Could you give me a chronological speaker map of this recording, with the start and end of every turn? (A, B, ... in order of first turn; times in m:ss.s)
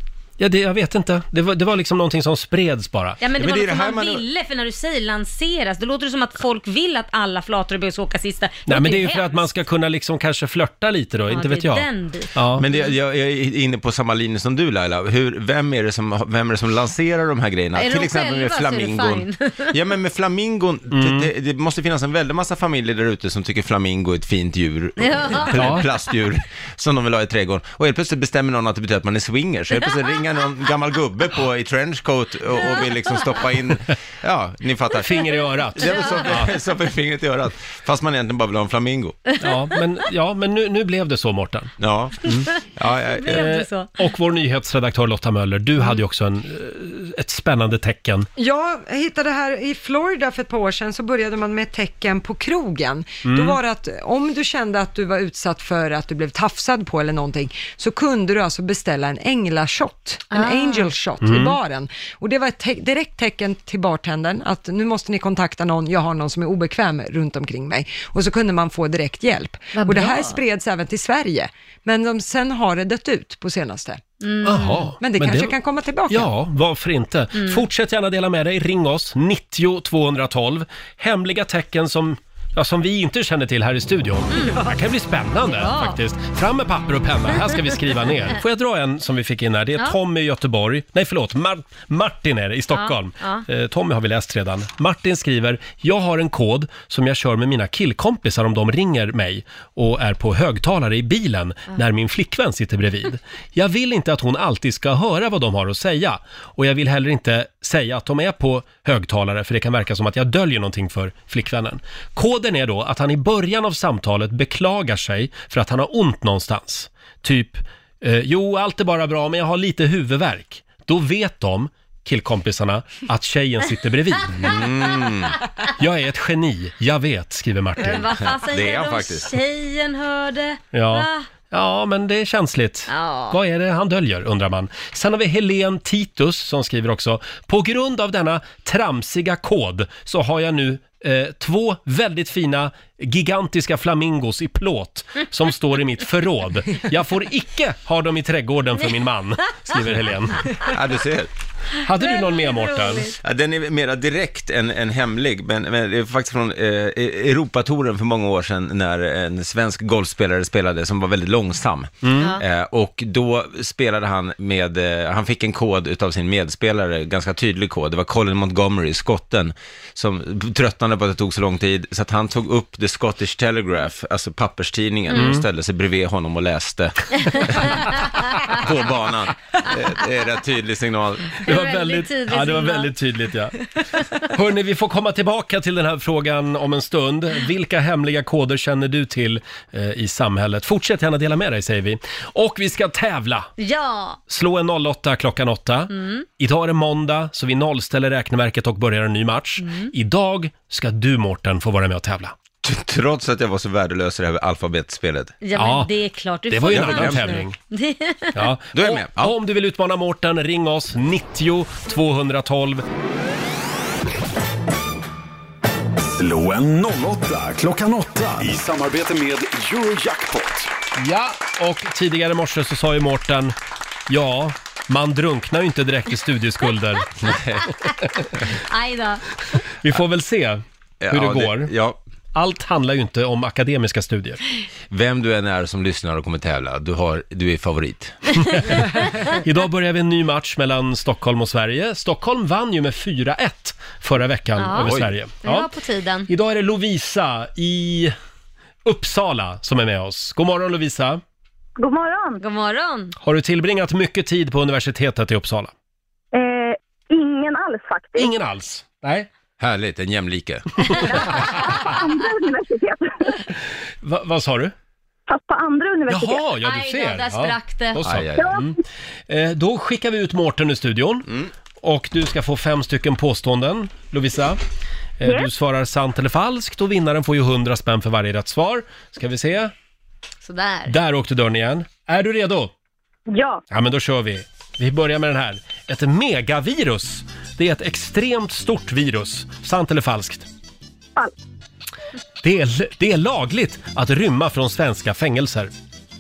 0:00.4-0:03.2 A
0:03.2-0:09.4 B
0:03.4-0:04.2 C
0:08.7-0:12.6 A
0:11.3-0:12.9 B
0:12.6-0:39.2 C
0:17.8-0:19.8 B
0:20.9-0:21.3 A
0:25.0-0:25.8 B
0:25.5-0:25.8 A
0:35.0-0:36.5 A
0:35.9-0:36.1 B
0:39.4-0:41.7 A
0:41.8-0:43.4 C
0:43.2-0:44.0 B
0:43.3-0:48.3 A
0:48.4-1:14.0 D
0:53.2-0:53.6 A
1:00.3-1:00.9 B
1:01.2-1:01.6 A
1:09.7-1:10.4 B
1:14.2-1:14.9 B
1:14.4-1:15.6 A
1:15.0-1:16.3 D
1:16.1-2:04.6 A
1:17.4-1:17.6 B
1:24.3-1:24.6 B
1:25.5-1:26.0 B
1:32.7-1:33.4 B
2:04.4-2:05.4 C
2:05.8-2:08.1 A
2:07.8-2:11.3 B
2:08.3-2:09.4 C
2:10.7-2:30.5 A
2:12.9-2:13.4 B
2:30.6-2:31.3 C
2:31.8-2:33.1 A
2:32.0-2:33.2 B
2:33.1-2:57.9 C
2:42.0-2:42.4 A
2:55.1-2:55.4 A
2:58.5-3:01.4 C
3:01.4-3:02.9 B
3:01.4-3:03.6 A
3:04.0-3:04.3 B
3:04.2-3:13.5 A
3:13.6-3:14.2 B
3:14.3-3:22.3 A
3:15.9-3:16.3 B
3:19.6-3:19.9 B
3:22.6-3:25.4 C
3:25.4-3:28.5 B
3:25.6-3:25.9 A
3:26.5-3:27.6 A
3:26.7-3:27.4 C
3:28.4-3:32.8 A
3:28.7-3:29.4 C
3:36.2-3:40.7 E
3:41.0-3:43.5 A
3:44.1-3:47.1 A
3:47.2-3:47.7 C
3:47.8-3:49.6 B
3:49.8-3:51.7 A
3:51.0-3:52.0 C
3:52.4-3:54.4 A
3:54.9-3:58.2 C
3:58.4-4:05.7 A
4:04.6-4:06.3 B
4:04.8-4:05.1 C
4:06.3-4:08.2 A
4:08.8-4:11.2 A
4:11.8-4:12.4 F
4:12.4-4:13.2 B
4:13.2-4:15.7 A
4:16.3-4:18.3 F
4:18.2-4:19.3 A
4:19.6-4:21.4 C
4:20.9-4:22.0 A
4:21.5-4:23.4 F
4:24.0-4:24.7 A
4:25.3-4:26.4 F
4:26.1-4:31.3 A
4:26.6-4:28.0 B
4:28.0-4:28.6 C
4:28.4-4:28.6 F
4:31.8-4:34.6 A
4:35.2-4:39.7 A
4:35.2-4:35.5 F
4:40.4-4:41.0 B
4:40.9-4:42.7 A
4:43.3-4:43.6 F
4:43.7-4:50.5 A
4:52.4-4:55.7 A